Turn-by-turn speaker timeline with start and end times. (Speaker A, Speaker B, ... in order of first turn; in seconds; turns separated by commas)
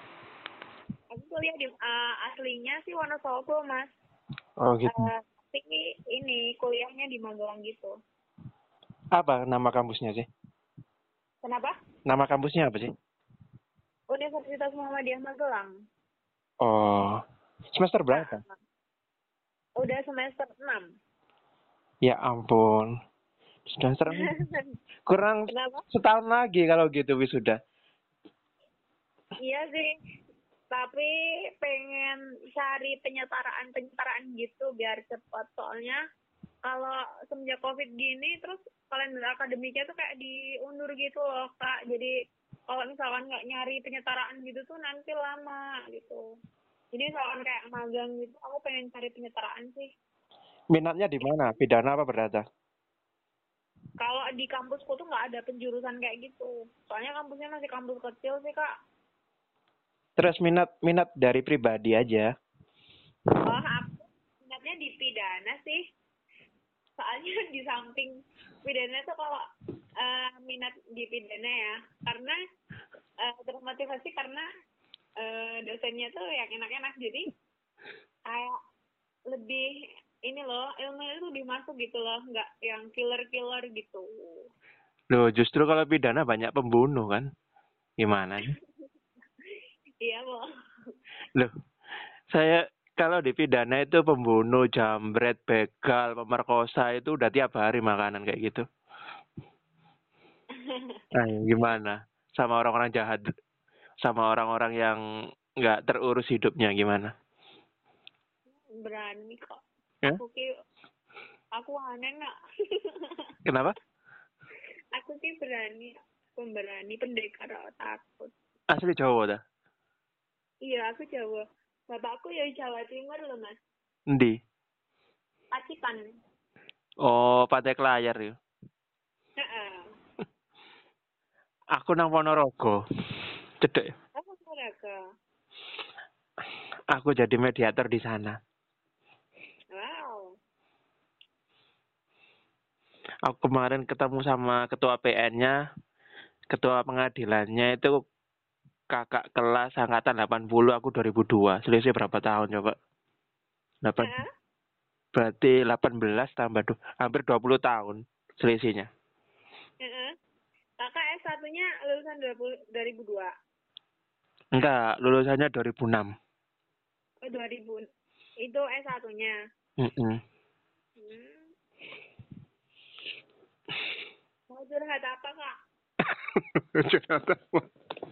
Speaker A: 1.1-3.9, Speaker B: 4.6-5.0, Speaker A: 4.9-7.9, Speaker B: 9.1-10.3, Speaker A: 11.4-11.7, Speaker B: 12.1-12.9, Speaker A: 14.1-15.7, Speaker B: 16.6-17.2, Speaker B: 17.8-18.4, Speaker A: 18.1-18.6, Speaker A: 19.8-20.9, Speaker B: 22.1-22.9, Speaker B: 23.7-24.3, Speaker A: 24.2-24.8, Speaker B: 25.1-27.6, Speaker A: 25.5-25.8, Speaker A: 29.4-29.9, Speaker A: 30.7-36.0, Speaker A: 36.7-42.1, Speaker A: 42.7-46.2, Speaker A: 46.9-49.9, Speaker B: 50.7-52.4, Speaker A: 54.0-58.7, Speaker B: 60.2-62.3, Speaker A: 63.5-65.8, Speaker A: 67.0-68.1, Speaker A: 68.6-69.4, Speaker A: 70.0-72.4, Speaker A: 73.2-74.5, Speaker A: 75.2-77.3, Speaker A: 78.3-78.6, Speaker A: 79.3-79.7, Speaker A: 80.3-84.5, Speaker B: 85.1-87.3, Speaker B: 88.0-88.5, Speaker A: 90.0-90.5, Speaker B: 92.3-98.6, Speaker A: 100.7-101.0, Speaker B: 101.1-103.2, Speaker B: 104.0-105.0, Speaker B: 105.6-107.1, Speaker A: 108.8-110.5, Speaker A: 111.5-113.2, Speaker B: 113.5-113.7, Speaker A: 114.9-118.3, Speaker B: 118.7-119.4, Speaker A: 120.6-123.5, Speaker A: 125.5-126.1, Speaker B: 127.0-128.3, Speaker A: 129.4-129.9, Speaker B: 131.8-132.8, Speaker B: 133.6-133.9, Speaker A: 134.2-134.9, Speaker B: 136.9-138.3, Speaker A: 139.7-140.3, Speaker B: 143.3-145.6, Speaker B: 146.5-148.0, Speaker B: 148.9-152.8, Speaker B: 153.8-154.1, Speaker A: 154.0-154.3, Speaker B: 155.1-158.9, Speaker A: 159.8-160.2, Speaker A: 160.8-163.3, Speaker B: 164.6-166.1, Speaker A: 167.2-167.9, Speaker A: 168.4-169.3, Speaker B: 169.8-170.2, Speaker A: 171.0-171.5, Speaker A: 174.5-175.5, Speaker B: 176.3-177.6